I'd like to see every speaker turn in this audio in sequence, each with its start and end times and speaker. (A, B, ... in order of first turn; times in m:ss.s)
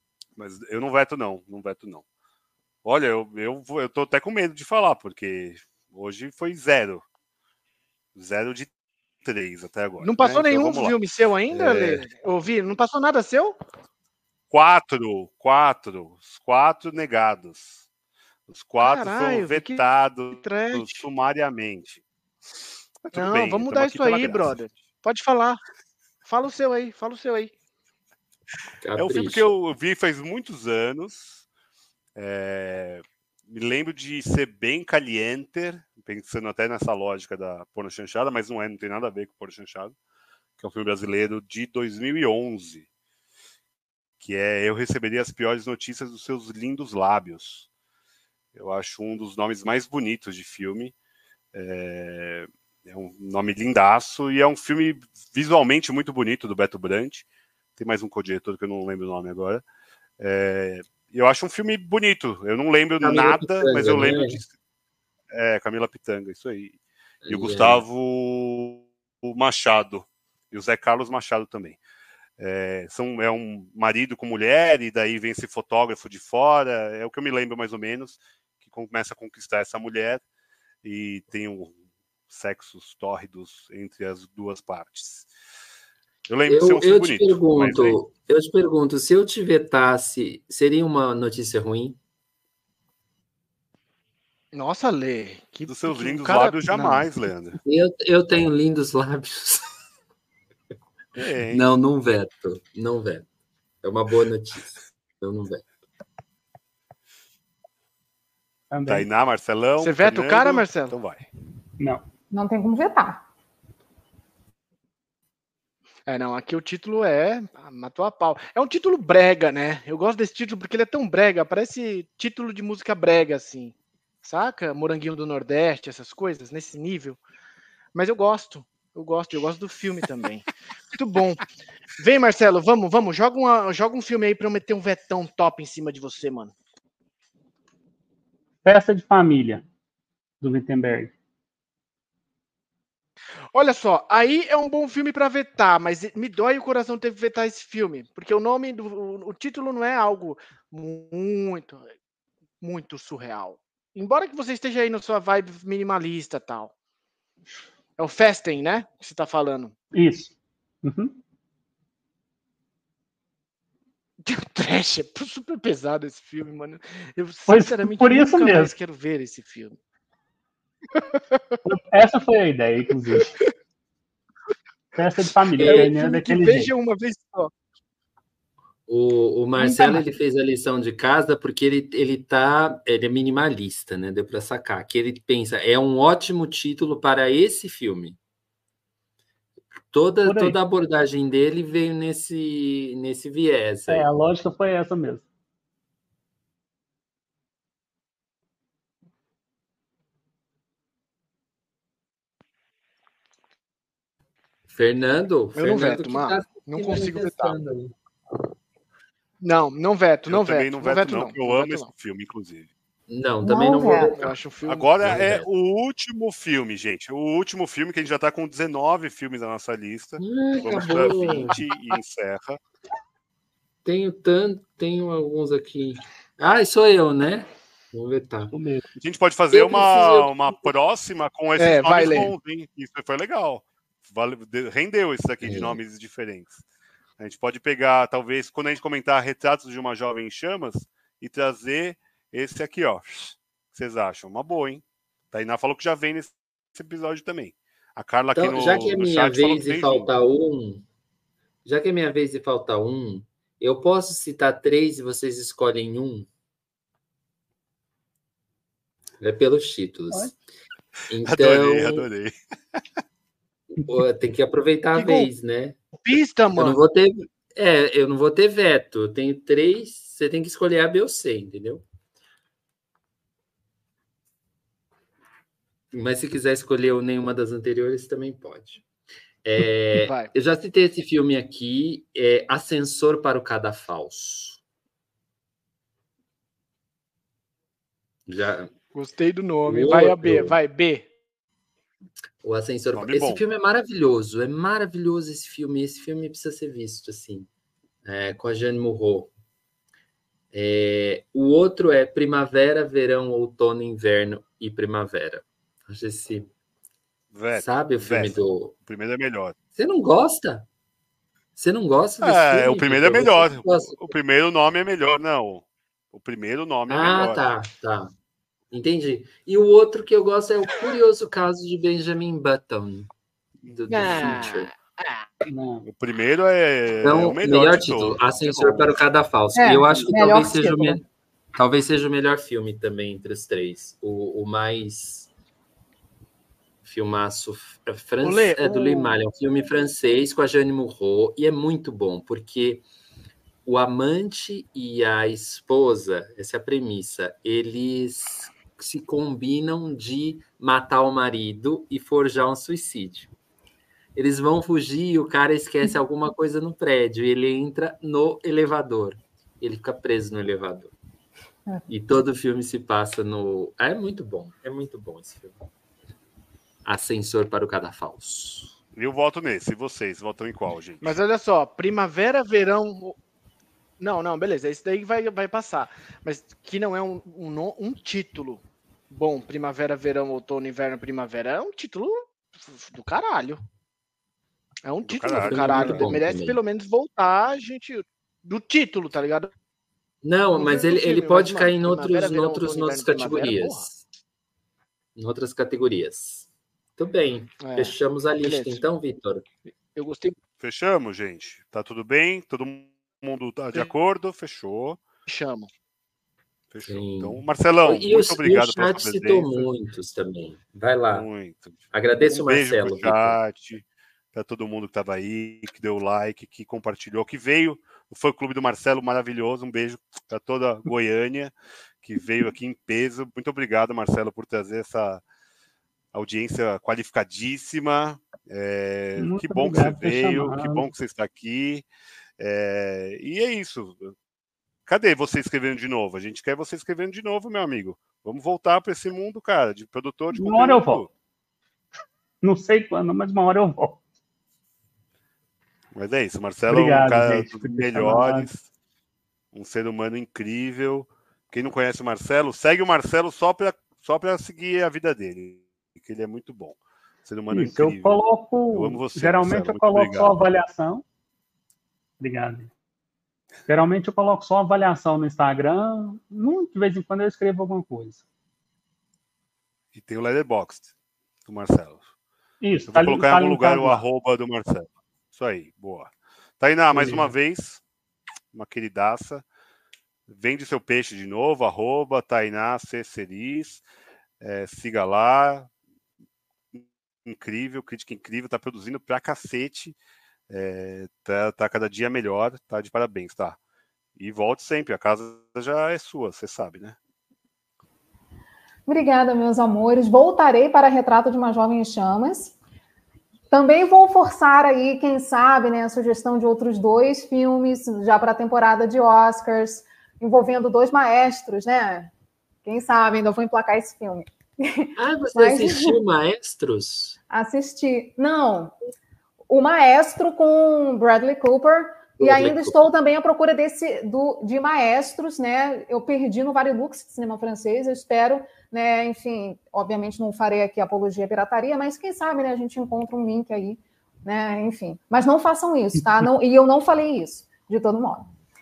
0:00.4-0:02.0 A
0:02.8-0:07.0 A
0:08.1-0:08.7 A
0:09.2-0:11.0 A
0:10.0-0:13.6 B
0:11.5-0:12.1 A
0:14.5-0:17.8 A
0:18.5-0:22.0 A
0:18.8-0:21.0 B
0:23.0-0:24.6 A
0:23.1-0:25.6 B
0:26.2-0:27.5 B
0:28.8-0:29.5 C
0:29.0-0:31.4 A
0:32.1-0:40.0 A
0:40.6-0:42.8 A
0:44.2-0:47.7 A
0:48.5-0:50.9 A
0:51.5-0:59.6 A
1:00.2-1:04.5 A
1:03.0-1:04.4 C
1:05.3-1:11.8 A
1:07.2-1:07.8 C
1:12.4-1:20.2 A
1:20.8-1:21.8 A
1:22.3-1:25.3 A
1:26.3-1:28.0 A
1:26.4-1:32.0 C
1:34.5-1:37.1 B
1:35.7-1:37.6 A
1:37.6-1:39.7 C
1:41.1-1:41.6 A
1:41.5-1:43.3 C
1:43.8-1:45.6 C
1:48.7-1:49.1 D
1:48.8-1:51.2 A
1:49.8-1:51.0 B
1:52.3-1:53.2 E
1:56.1-2:07.2 B
2:07.9-2:11.4 B
2:12.0-2:16.5 B
2:18.6-2:19.6 D
2:20.4-2:21.1 D
2:23.5-2:31.9 B
2:32.6-2:36.7 B
2:38.0-2:39.7 B
2:39.9-2:41.1 D
2:44.2-2:49.8 B
2:47.5-2:48.7 D
2:51.1-2:51.4 B
2:51.6-2:53.4 D
2:54.9-2:56.7 D
2:55.6-2:55.9 C
2:55.6-2:57.5 B
2:58.9-3:08.2 C
2:59.6-3:00.0 D
3:09.9-3:14.1 C
3:10.2-3:10.6 D
3:13.9-3:15.2 D
3:24.7-3:27.9 C
3:25.6-3:27.6 B
3:29.4-3:31.9 B
3:30.3-3:32.7 A
3:33.1-3:34.3 C
3:33.4-3:34.1 E
3:34.2-3:34.9 B
3:34.6-3:42.6 A
3:35.0-3:35.4 C
3:40.2-3:41.6 C
3:40.7-3:41.6 B
3:43.8-3:48.5 C
3:48.5-3:49.0 D
3:49.0-3:56.6 A
3:49.5-3:50.4 C
3:51.6-3:52.3 B
3:55.4-3:55.8 C
3:57.2-4:10.1 A
4:08.3-4:10.8 C
4:11.6-4:16.3 C
4:19.2-4:20.4 C
4:21.1-4:22.1 C
4:21.2-4:22.3 A
4:23.8-4:25.8 C
4:24.9-4:25.3 B
4:26.0-4:26.8 B
4:26.5-4:31.8 C
4:35.9-4:38.8 C
4:39.4-4:44.6 C
4:40.0-4:40.3 B
4:48.3-4:48.7 C
4:48.9-4:51.1 B
4:49.6-4:50.6 C
4:52.4-4:57.5 C
4:52.9-4:53.4 A
4:58.0-4:59.3 C
5:00.5-5:06.5 C
5:07.3-5:09.6 A
5:07.5-5:08.7 C
5:09.8-5:10.7 C
5:11.6-5:14.1 C
5:12.2-5:17.5 A
5:16.9-5:18.1 C
5:18.7-5:23.1 C
5:23.6-5:24.7 C
5:23.9-5:25.2 B
5:25.4-5:25.8 D
5:25.8-5:29.0 A
5:27.0-5:35.3 C
5:29.5-5:31.0 E
5:36.8-5:42.8 C
5:38.2-5:39.2 B
5:43.6-5:53.3 C
5:54.1-6:00.9 C
6:01.9-6:05.6 C
6:06.8-6:08.7 C
6:08.9-6:11.2 A
6:11.0-6:13.2 B
6:14.0-6:23.6 B
6:24.8-6:29.5 B
6:25.0-6:26.2 A
6:25.3-6:26.6 C
6:30.2-6:34.0 C
6:30.5-6:33.9 B
6:35.2-6:39.4 C
6:37.6-6:38.8 B
6:39.9-6:40.4 B
6:40.6-6:45.0 A
6:45.3-6:45.7 B
6:46.7-6:49.7 A
6:46.8-6:51.3 C
6:51.1-7:05.2 A
6:51.9-6:53.4 C
7:06.1-7:11.8 A
7:09.2-7:10.9 D
7:12.4-7:14.1 A
7:14.8-7:21.1 A
7:20.3-7:21.0 D
7:22.4-7:24.0 D
7:25.9-7:28.6 A
7:26.7-7:28.5 D
7:29.5-7:40.4 A
7:37.5-7:41.0 D
7:42.2-7:42.7 D
7:43.7-7:48.2 D
7:49.9-7:50.9 A
7:51.4-7:52.0 A
7:52.6-7:54.0 D
7:52.8-7:57.8 A
7:56.9-7:57.3 D
7:58.5-7:59.4 A
8:00.3-8:03.8 A
8:04.4-8:05.7 A
8:06.7-8:10.0 A
8:10.5-8:13.6 A
8:14.2-8:17.0 A
8:18.9-8:22.5 E
8:23.5-8:32.1 E
8:32.6-8:36.0 E
8:35.0-8:37.2 C
8:37.3-8:38.7 E
8:39.5-8:58.3 E
8:42.2-8:42.9 C